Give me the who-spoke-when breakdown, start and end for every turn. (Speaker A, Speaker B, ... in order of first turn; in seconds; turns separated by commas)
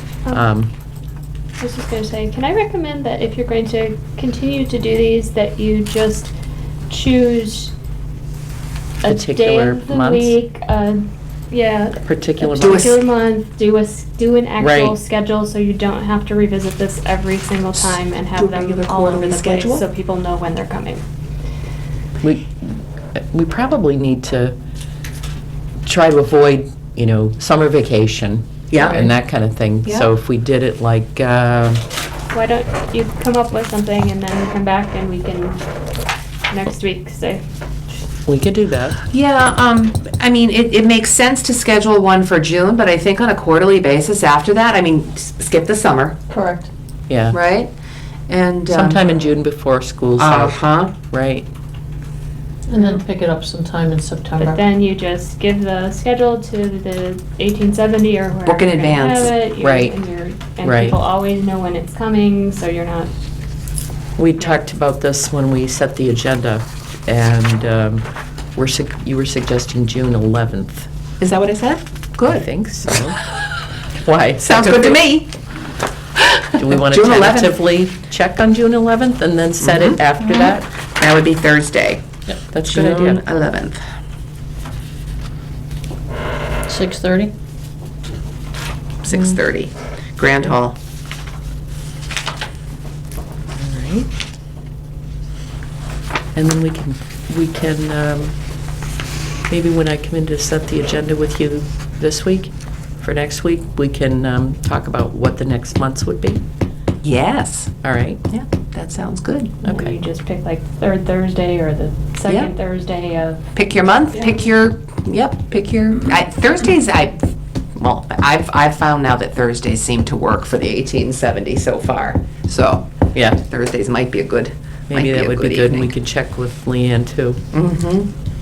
Speaker A: 0.3-0.7, Speaker B: 1.6-6.3, Speaker B: 6.9-7.7, Speaker B: 9.0-21.0, Speaker A: 9.1-10.4, Speaker A: 12.0-12.9, Speaker C: 12.6-13.0, Speaker A: 14.6-15.0, Speaker C: 18.4-19.8, Speaker A: 22.2-24.6, Speaker A: 25.9-31.8, Speaker C: 28.7-29.1, Speaker B: 32.3-35.6, Speaker B: 36.5-37.4, Speaker A: 38.3-39.0, Speaker C: 39.1-46.2, Speaker D: 46.3-46.7, Speaker A: 47.1-47.4, Speaker C: 47.3-47.7, Speaker C: 48.3-49.1, Speaker A: 48.7-51.5, Speaker C: 50.2-50.9, Speaker D: 52.7-54.6, Speaker B: 54.4-63.1, Speaker C: 58.5-59.3, Speaker A: 59.6-59.9, Speaker A: 60.6-61.0, Speaker A: 64.2-70.9, Speaker C: 71.2-72.5, Speaker A: 72.3-73.2, Speaker A: 73.9-75.0, Speaker C: 74.4-75.3, Speaker C: 76.3-77.6, Speaker A: 76.6-80.7, Speaker C: 79.6-80.0, Speaker D: 80.2-80.5, Speaker C: 81.0-82.0, Speaker A: 82.5-83.2, Speaker C: 82.6-83.8, Speaker D: 86.7-87.3, Speaker C: 89.0-90.8, Speaker A: 93.5-94.1, Speaker A: 96.3-98.3, Speaker A: 99.5-106.4, Speaker C: 107.0-107.7, Speaker A: 107.8-108.2, Speaker C: 108.3-109.6, Speaker B: 109.6-113.4, Speaker A: 109.7-110.0, Speaker C: 112.3-112.5, Speaker C: 113.5-117.2, Speaker C: 117.8-125.9, Speaker A: 123.1-123.4, Speaker A: 124.9-127.4, Speaker C: 127.5-128.1